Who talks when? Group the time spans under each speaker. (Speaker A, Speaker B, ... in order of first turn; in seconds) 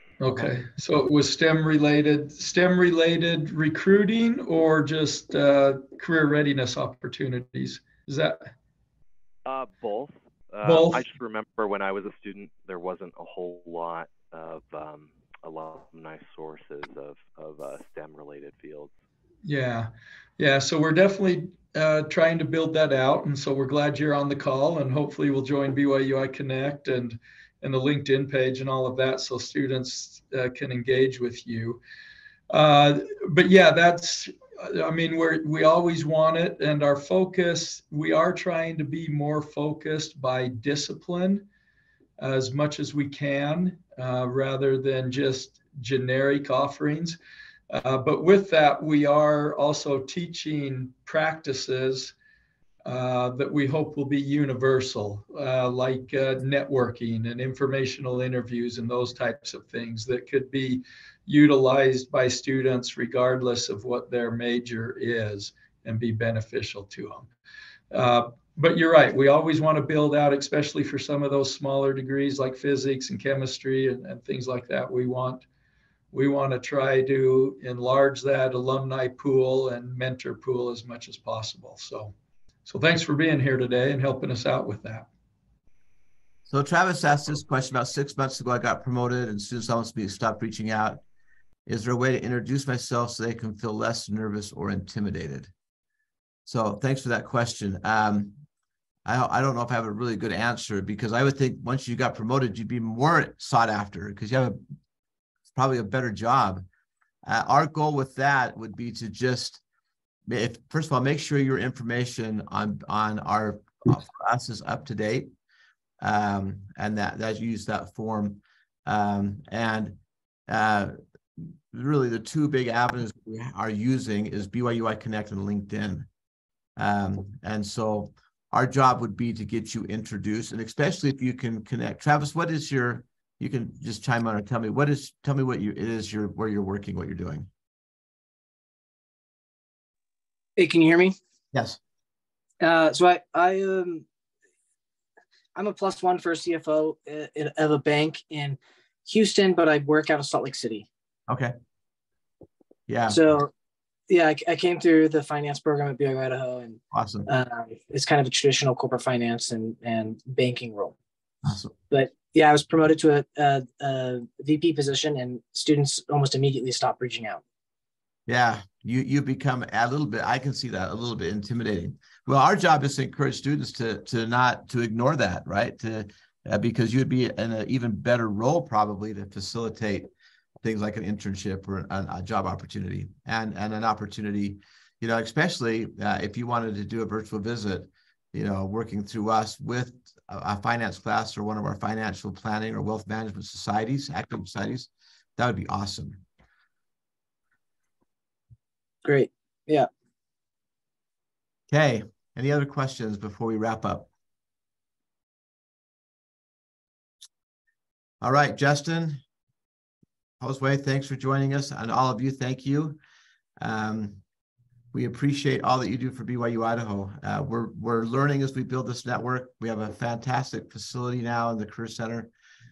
Speaker A: 0.2-8.5, 10.6-11.0, 19.4-31.8, 32.5-41.4, 42.2-47.2, 47.7-52.1, 52.8-67.3, 67.9-75.5, 76.1-82.1, 82.7-85.1
Speaker B: 9.4-18.9
Speaker C: 86.5-91.0, 91.7-95.5, 96.5-98.4, 99.0-104.6, 105.5-106.6, 107.2-109.6, 110.3-115.3, 116.0-120.0, 120.5-126.1, 126.8-137.5, 141.5-141.8, 151.3-151.5, 152.9-153.2, 156.9-157.3, 161.4-161.7, 168.3-180.1, 180.6-196.2, 201.7-204.1, 208.2-209.2, 210.4-213.0, 213.6-214.2, 214.9-222.3
Speaker D: 140.6-141.2, 142.6-144.0, 145.6-150.9, 153.1-153.5, 154.1-161.0, 161.9-167.4, 199.0-199.9